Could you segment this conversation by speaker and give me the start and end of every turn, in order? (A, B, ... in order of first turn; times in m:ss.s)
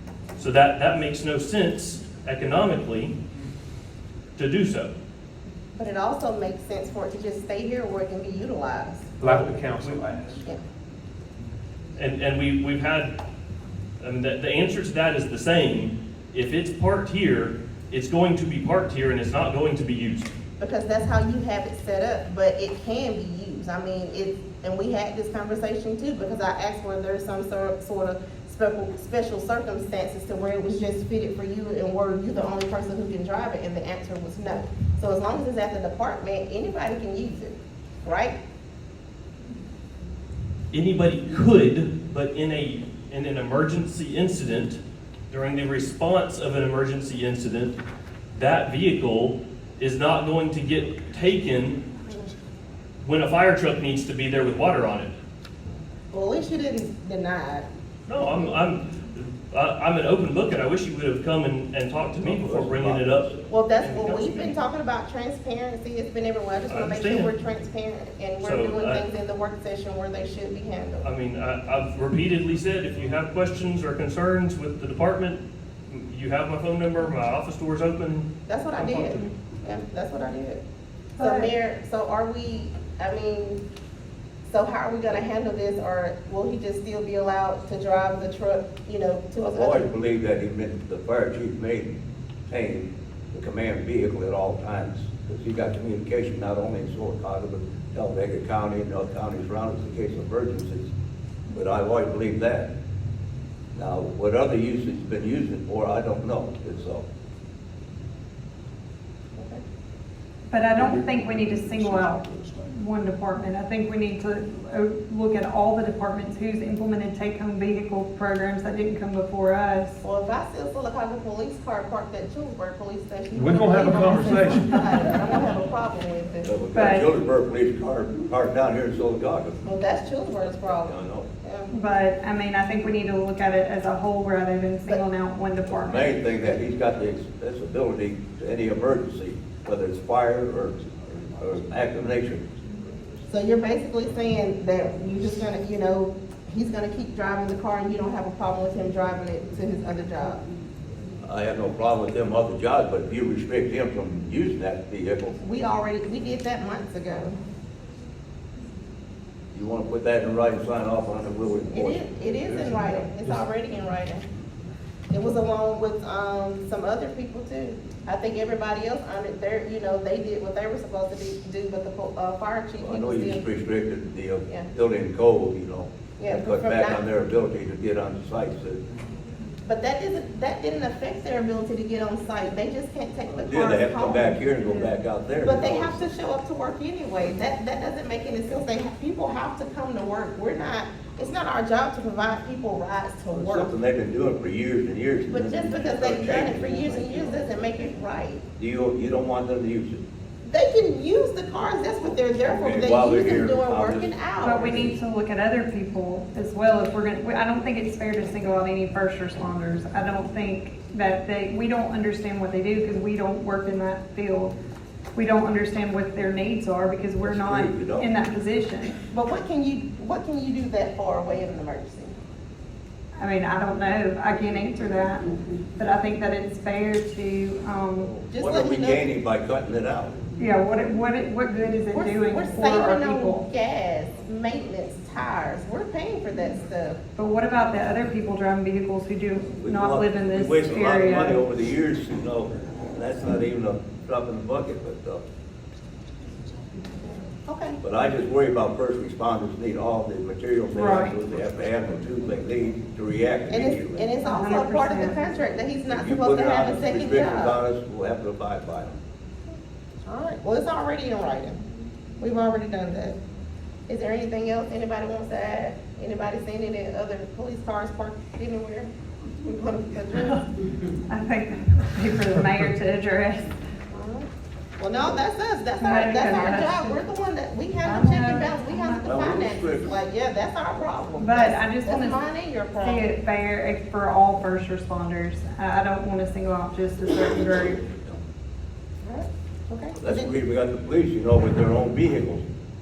0:00.4-0:03.1 A
0:04.4-0:04.9 A
0:05.8-0:09.1 B
0:09.2-0:10.4 C
0:09.2-0:10.0 A
0:12.0-0:13.2 A
0:14.0-0:20.3 A
0:20.6-0:38.4 B
0:40.7-0:47.8 A
0:48.3-0:51.8 A
0:53.0-0:55.1 A
0:56.1-0:58.6 B
0:58.1-1:03.3 A
1:02.1-1:03.4 D
1:03.5-1:11.0 B
1:03.8-1:04.5 A
1:06.7-1:07.3 A
1:08.4-1:09.0 A
1:11.0-1:19.2 A
1:18.5-1:20.6 B
1:21.2-1:23.6 B
1:21.2-1:21.5 E
1:24.4-1:29.9 B
1:29.4-1:31.9 D
1:32.5-1:40.9 D
1:41.5-1:42.7 D
1:43.7-1:47.0 D
1:50.5-2:00.0 E
1:50.7-1:52.7 C
2:00.0-2:06.6 B
2:03.3-2:05.0 C
2:06.4-2:09.6 D
2:06.7-2:07.1 E
2:09.6-2:11.7 B
2:10.6-2:11.3 D
2:11.7-2:16.3 E
2:15.7-2:22.5 D
2:23.2-2:30.4 B
2:31.2-2:35.4 D
2:35.4-2:37.4 B
2:39.5-2:43.3 D
2:41.7-2:44.2 B
2:45.1-2:53.4 B
2:52.8-2:58.8 D
2:56.2-2:57.0 B
2:59.6-3:04.9 B
3:03.4-3:06.1 D
3:05.4-3:13.7 B
3:13.3-3:17.5 D
3:15.3-3:18.4 B
3:18.6-3:20.0 D
3:20.4-3:24.9 B
3:22.1-3:25.0 D
3:24.4-3:34.5 E
3:35.2-3:39.0 E
3:37.2-3:38.1 D
3:39.1-3:42.1 B
3:43.2-3:48.2 E
3:48.2-3:50.1 D
3:48.3-3:49.0 B
3:50.4-3:53.4 E
3:51.9-3:57.0 B
3:57.2-4:01.4 E
3:59.6-4:05.2 D
4:07.4-4:07.8 B
4:07.8-4:14.1 D
4:10.7-4:11.2 E
4:13.5-4:17.6 B
4:14.2-4:15.2 E
4:15.9-4:19.0 D
4:20.0-4:21.6 B
4:22.2-4:23.2 B
4:23.9-4:28.9 B
4:29.4-4:30.4 B
4:31.1-4:33.5 E
4:33.9-4:34.3 B
4:34.8-4:43.1 B
4:35.8-4:37.0 E
4:37.8-4:39.3 E
4:39.0-4:40.0 D
4:41.2-4:42.2 E
4:42.7-4:47.8 E
4:47.8-4:48.2 D
4:49.0-4:50.3 B
4:50.0-4:52.4 D